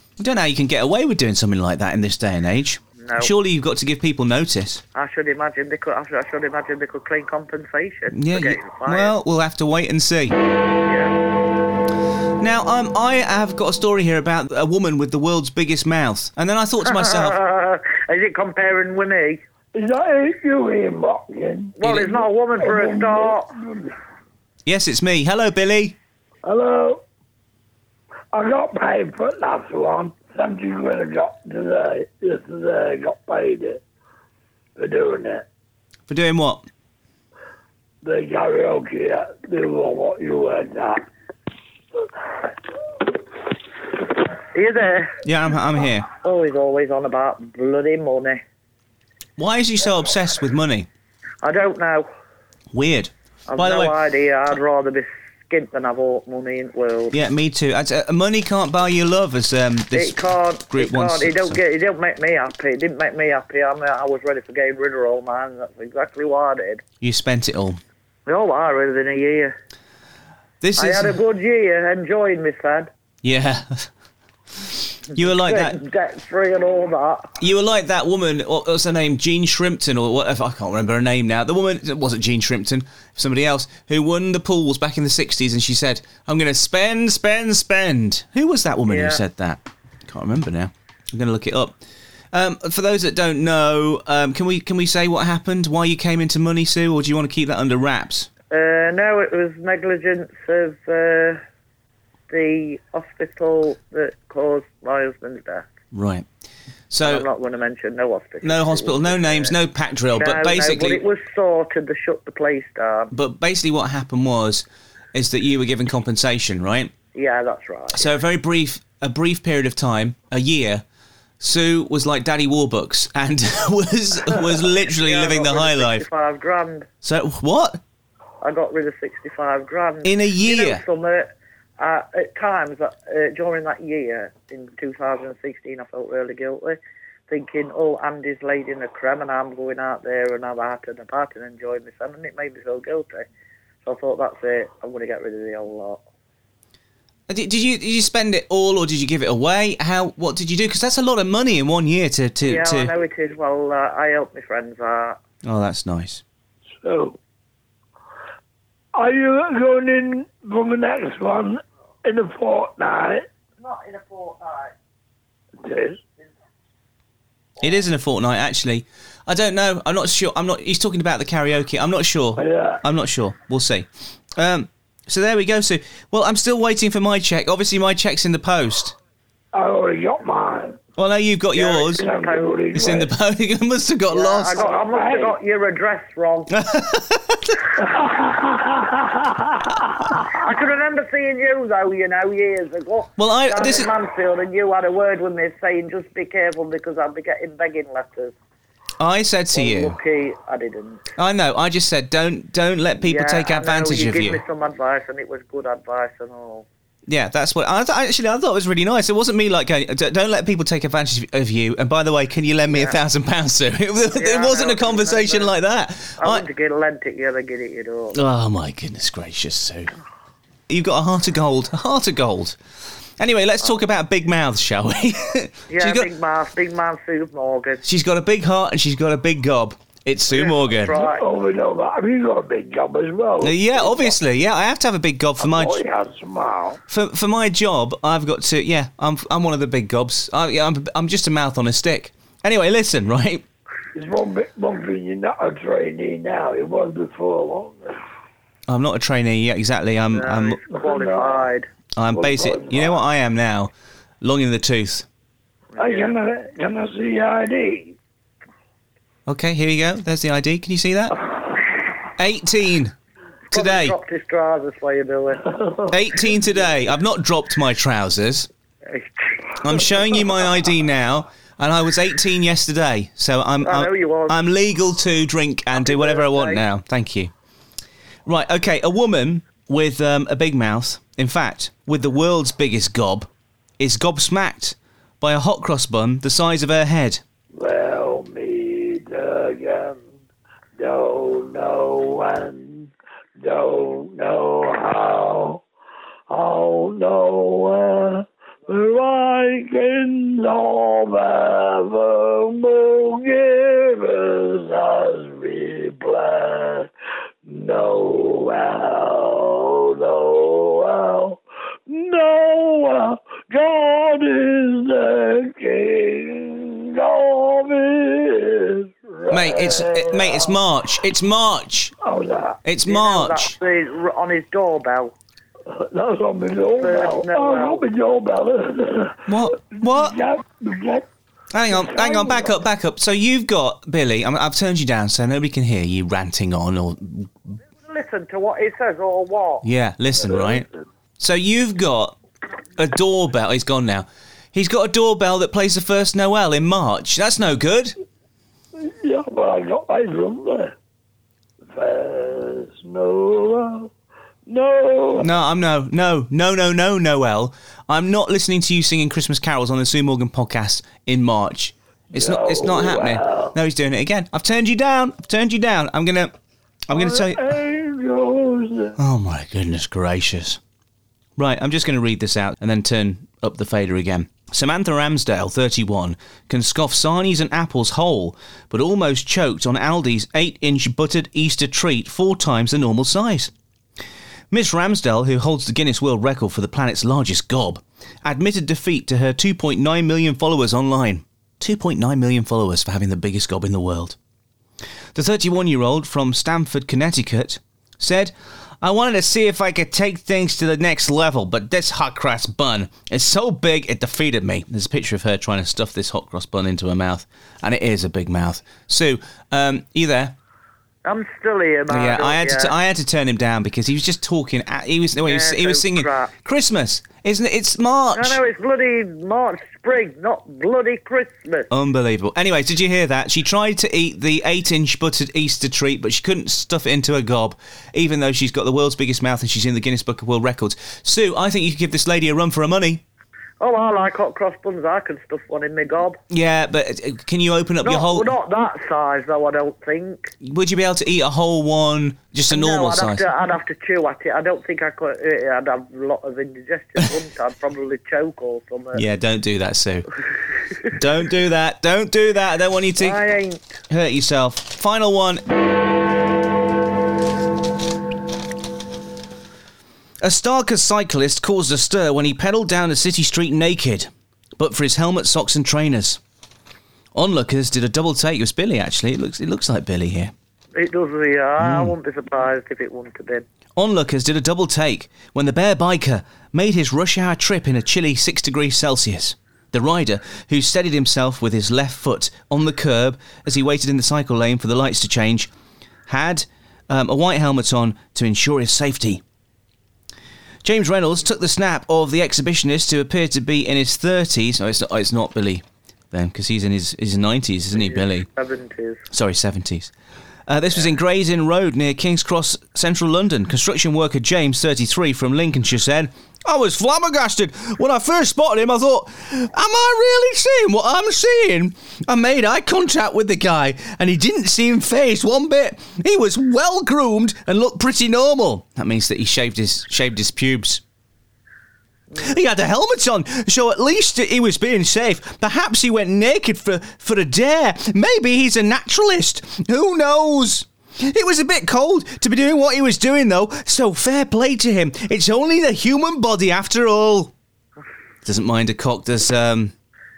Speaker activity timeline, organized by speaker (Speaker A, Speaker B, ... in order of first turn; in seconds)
Speaker A: 0.2-4.8, 8.1-10.4, 12.4-17.4, 21.8-22.1, 24.7-26.0, 36.1-36.6, 45.2-46.1, 49.4-50.9, 52.7-54.0, 57.1-61.6, 67.0-67.8, 70.6-71.1, 73.2-73.9, 74.6-75.8, 77.4-91.8, 92.3-98.3, 105.9-106.3, 106.9-107.3, 108.4-111.0, 113.1-116.9, 117.9-120.8, 121.4-126.0, 127.0-127.8, 130.0-130.8, 147.3-152.9, 155.4-156.2, 167.6-179.0, 181.0-182.1, 182.7-184.6, 186.5-187.6, 193.2-193.9, 199.0-200.0, 201.2-204.4, 207.1-216.4, 218.1-219.9, 220.7-222.6, 223.2-226.1, 227.8-230.9, 233.4-235.8, 236.9-243.4, 248.7-250.6, 252.0-253.7, 254.2-255.1, 259.3-261.2, 262.2-262.9, 263.5-264.0, 265.9-268.5, 269.6-277.3, 278.3-283.3, 283.8-287.2, 319.3-321.9, 322.6-323.6, 329.3-330.2, 331.5-337.3, 339.6-340.7, 341.2-342.2, 342.8-347.9, 355.2-366.3, 366.9-367.6, 369.0-370.6, 371.4-383.5, 384.5-394.2, 395.1-410.4, 411.9-418.4, 421.7-433.0, 436.3-438.3, 440.4-443.2, 448.9-450.1, 450.9-453.2, 453.9-455.4, 460.2-466.2, 467.1-470.3, 471.6-471.9, 473.8-485.5, 486.1-489.2, 490.6-498.3, 499.1-499.9, 500.5-520.8, 522.2-537.3, 538.2-539.7
Speaker B: 3.0-3.3, 5.0-9.1, 10.8-11.2, 16.9-19.4, 21.8-23.5, 44.5-45.2, 46.1-48.4, 51.4-52.1, 53.5-57.2, 59.9-66.8, 68.3-69.5, 70.8-72.9, 75.1-77.3, 88.9-89.2, 98.5-101.4, 102.3-105.7, 107.0-109.5, 110.1-113.1, 117.1-118.1, 124.8-126.9, 128.4-136.8, 137.3-143.2, 143.8-146.0, 152.4-155.2, 163.6-164.7, 181.6-183.0, 184.1-186.7, 190.1-198.3, 199.5-201.1, 203.0-206.7, 212.7-213.0, 214.1-215.6, 216.2-218.2, 225.7-227.8, 230.3-231.2, 250.1-251.7, 255.7-256.1, 263.5-265.5, 268.9-269.7, 273.6-274.4, 275.8-276.6, 322.9-325.1, 326.8-327.9, 337.9-339.6, 411.1-412.8, 415.2-416.3, 418.2-421.7, 433.6-436.2, 437.8-440.3, 442.5-449.0, 453.0-453.7, 470.8-473.4, 497.7-499.1
Speaker C: 19.8-21.7, 22.6-23.9, 26.4-27.0, 28.3-33.8, 34.8-35.5, 38.0-41.0, 156.8-157.2, 158.9-163.3, 165.6-166.0, 172.4-172.8, 179.5-180.8, 181.9-183.1, 184.5-185.4, 187.8-190.2, 230.9-234.2, 235.4-236.8, 243.9-248.0, 250.7-251.5, 252.1-253.0, 255.8-258.0, 265.5-266.0, 287.5-290.1, 290.8-295.6, 296.3-306.9, 307.5-320.6, 322.0-322.6, 325.7-331.1, 331.7-332.6, 340.3-340.6, 348.8-350.8, 351.7-353.9, 354.5-355.3, 362.1-363.5, 366.9-369.0